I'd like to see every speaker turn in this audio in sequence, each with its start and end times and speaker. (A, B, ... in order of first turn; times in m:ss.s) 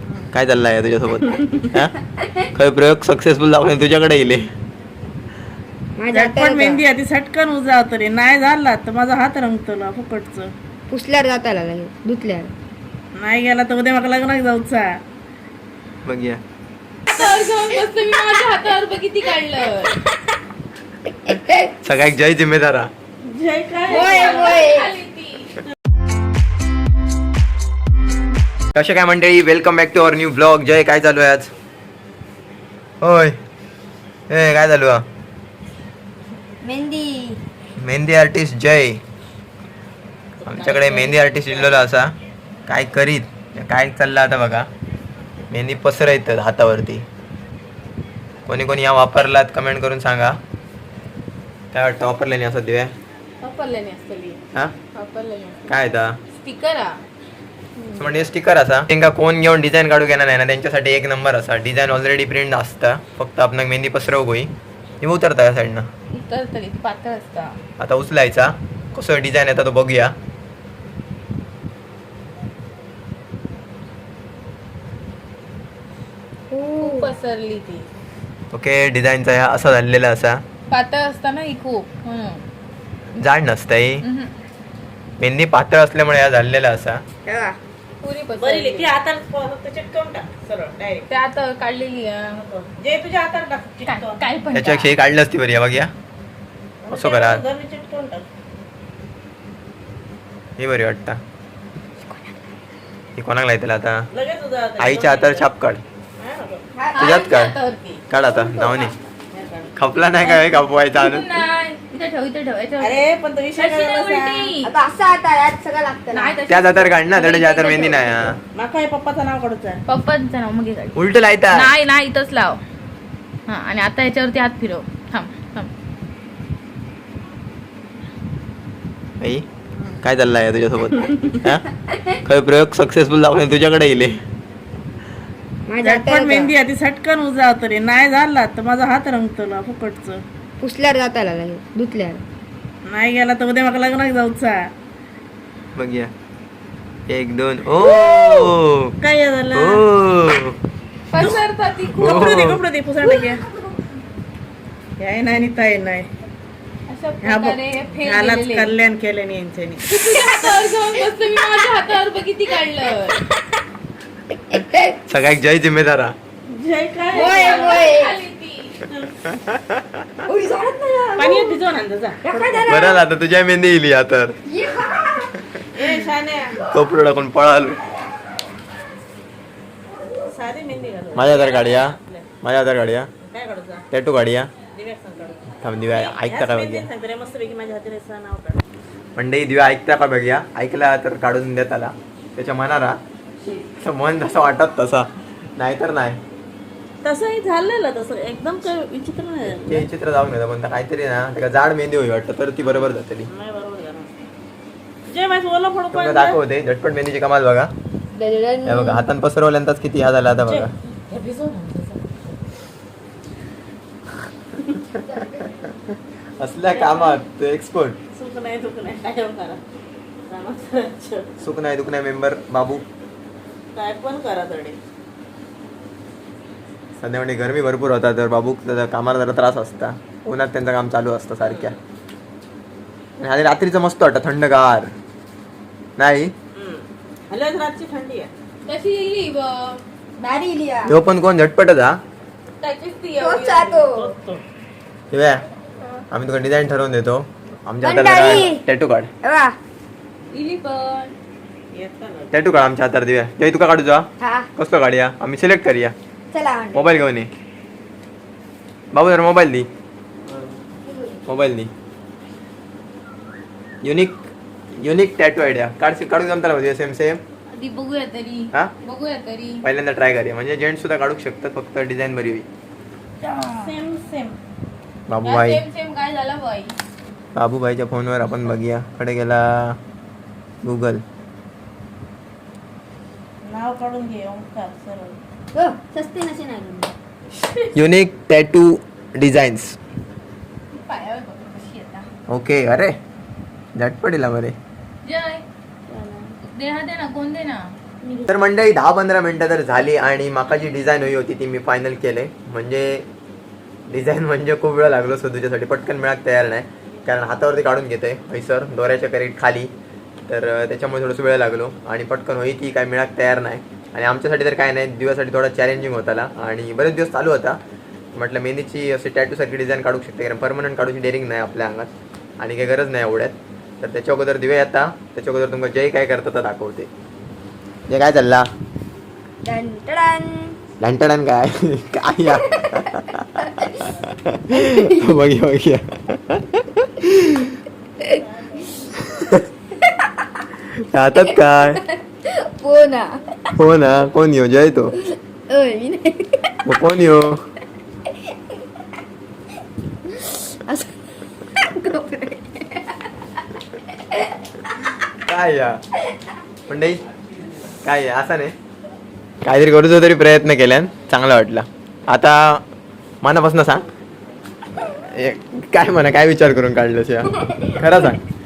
0:00.3-0:02.0 A
0:02.5-0:04.5 A
0:06.0-0:06.8 B
0:06.1-0:10.5 C
0:10.9-0:12.5 B
0:13.2-0:14.9 C
0:16.0-0:16.4 A
0:17.1-0:20.0 D
0:21.2-0:21.7 B
0:21.8-0:22.9 A
0:23.2-0:24.6 C
0:23.9-0:24.9 B
0:23.9-0:25.6 D
0:28.7-0:31.5 A
0:33.0-0:33.4 A
0:34.3-0:35.0 A
0:36.6-0:37.4 B
0:37.8-0:39.0 A
0:40.4-0:41.9 C
0:40.5-0:42.2 A
0:42.7-0:44.7 A
0:45.5-0:47.0 A
0:48.5-0:50.4 A
0:51.7-0:52.9 A
0:53.4-0:54.4 D
0:54.9-0:55.7 D
0:55.7-0:56.2 A
0:56.3-0:57.0 D
0:57.8-0:58.2 D
0:58.0-1:05.9 A
1:06.1-1:07.6 D
1:07.8-1:10.1 A
1:16.5-1:17.1 B
1:16.8-1:17.9 D
1:18.5-1:20.4 A
1:20.7-1:22.4 D
1:23.2-1:24.0 A
1:24.0-1:24.3 D
1:25.2-1:27.0 A
1:27.3-1:27.6 B
1:28.0-1:28.9 D
1:28.4-1:31.1 C
1:31.1-1:32.4 D
1:32.5-1:34.3 C
1:33.9-1:34.9 D
1:34.5-1:35.9 A
1:36.8-1:38.2 C
1:36.9-1:37.4 A
1:40.6-1:41.2 A
1:42.0-1:42.4 B
1:43.2-1:44.1 A
1:44.1-1:45.5 C
1:44.8-1:45.8 A
1:46.2-1:46.6 C
1:46.8-1:47.2 B
1:46.9-1:48.8 D
1:47.0-1:47.6 A
1:48.1-1:49.0 A
1:49.3-1:49.7 C
1:49.8-1:51.4 A
1:50.2-1:53.0 D
1:52.8-1:54.5 C
1:53.6-1:54.7 D
1:54.6-1:56.4 B
1:56.1-1:58.2 D
1:56.5-1:58.4 A
1:58.6-1:59.8 C
1:59.9-2:02.6 D
2:01.0-2:01.7 A
2:03.5-2:05.7 D
2:10.0-2:14.2 A
2:11.1-2:11.4 C
2:15.7-2:16.5 B
2:15.8-2:20.2 C
2:20.6-2:22.2 B
2:22.9-2:24.6 C
2:25.8-2:26.1 A
2:27.1-2:28.9 A
2:27.8-2:29.8 C
2:29.5-2:30.6 A
2:31.1-2:32.4 D
2:31.9-2:33.4 C
2:32.0-2:32.6 A
2:35.0-2:36.1 C
2:36.9-2:38.7 D
2:37.2-2:39.9 C
2:39.9-2:43.2 D
2:44.5-2:45.1 B
2:45.1-2:46.2 A
2:46.5-2:47.9 C
2:47.1-2:48.2 B
2:47.2-2:48.8 D
2:48.9-2:49.2 C
2:49.2-2:50.1 A
2:50.3-2:51.5 B
2:51.2-2:52.8 C
2:52.2-2:53.0 B
2:52.7-2:54.4 A
2:54.5-2:55.3 B
2:55.7-2:56.6 C
2:56.6-2:57.8 A
3:00.3-3:02.3 C
3:01.2-3:03.1 A
3:03.2-3:03.8 C
3:03.9-3:04.5 A
3:04.7-3:08.6 C
3:05.6-3:06.9 A
3:09.2-3:13.0 A
3:13.8-3:16.2 A
3:17.0-3:19.9 C
3:19.7-3:23.3 A
3:22.6-3:24.1 C
3:25.1-3:26.4 C
3:25.9-3:27.7 A
3:28.2-3:29.1 B
3:28.6-3:30.7 A
3:30.5-3:32.4 C
3:34.9-3:35.7 A
3:35.1-3:35.4 B
3:36.4-3:38.0 A
3:36.7-3:37.2 C
3:38.2-3:39.6 C
3:40.3-3:41.3 C
3:41.4-3:42.8 A
3:43.8-3:44.8 C
3:47.0-3:51.8 A
3:51.4-3:51.7 C
3:53.2-3:54.9 A
3:56.0-3:56.3 A
3:56.6-3:58.3 C
3:58.7-3:59.8 D
4:00.2-4:00.9 B
4:00.9-4:02.0 A
4:02.6-4:03.8 D
4:03.2-4:04.1 B
4:03.7-4:04.4 C
4:05.1-4:05.4 A
4:06.1-4:09.1 A
4:07.8-4:08.6 B
4:09.2-4:09.6 B
4:10.3-4:11.1 D
4:11.7-4:12.4 C
4:12.3-4:15.9 A
4:14.2-4:14.5 B
4:16.3-4:16.9 B
4:16.7-4:17.3 A
4:18.9-4:19.7 A
4:20.8-4:21.2 B
4:21.3-4:21.7 A
4:23.8-4:24.3 A
4:24.8-4:27.2 A
4:27.5-4:29.6 D
4:29.6-4:32.5 A
4:33.2-4:34.4 C
4:33.3-4:33.7 D
4:35.1-4:35.6 A
4:35.2-4:36.8 D
4:37.4-4:39.8 A
4:40.6-4:41.0 A
4:43.4-4:45.2 C
4:45.5-4:46.9 B
4:47.7-4:49.8 A
4:50.7-4:52.1 D
4:52.3-4:53.0 A
4:53.8-4:54.6 A
4:55.0-4:55.4 D
4:55.9-4:56.4 C
4:56.5-4:57.7 D
4:58.0-4:58.3 C
4:58.3-5:03.0 A
5:03.9-5:09.7 A
5:10.3-5:17.6 A
5:18.2-5:21.9 A
5:22.4-5:26.9 A
5:27.9-5:28.5 A
5:29.4-5:30.6 B
5:30.8-5:37.6 A
5:32.2-5:33.9 B
5:34.5-5:35.2 B
5:38.1-5:39.0 C
5:39.0-5:39.4 A
5:39.8-5:40.2 B
5:40.8-5:41.8 A
5:41.2-5:43.5 B
5:43.6-5:44.9 A
5:45.1-5:46.6 B
5:46.6-5:47.4 A
5:50.2-5:50.9 B
5:51.5-5:53.0 B
5:55.3-5:55.8 A
5:56.7-5:57.0 A
5:57.8-5:58.5 A
5:59.4-6:02.6 A
6:03.2-6:03.8 A
6:04.8-6:08.2 A
6:07.4-6:08.1 B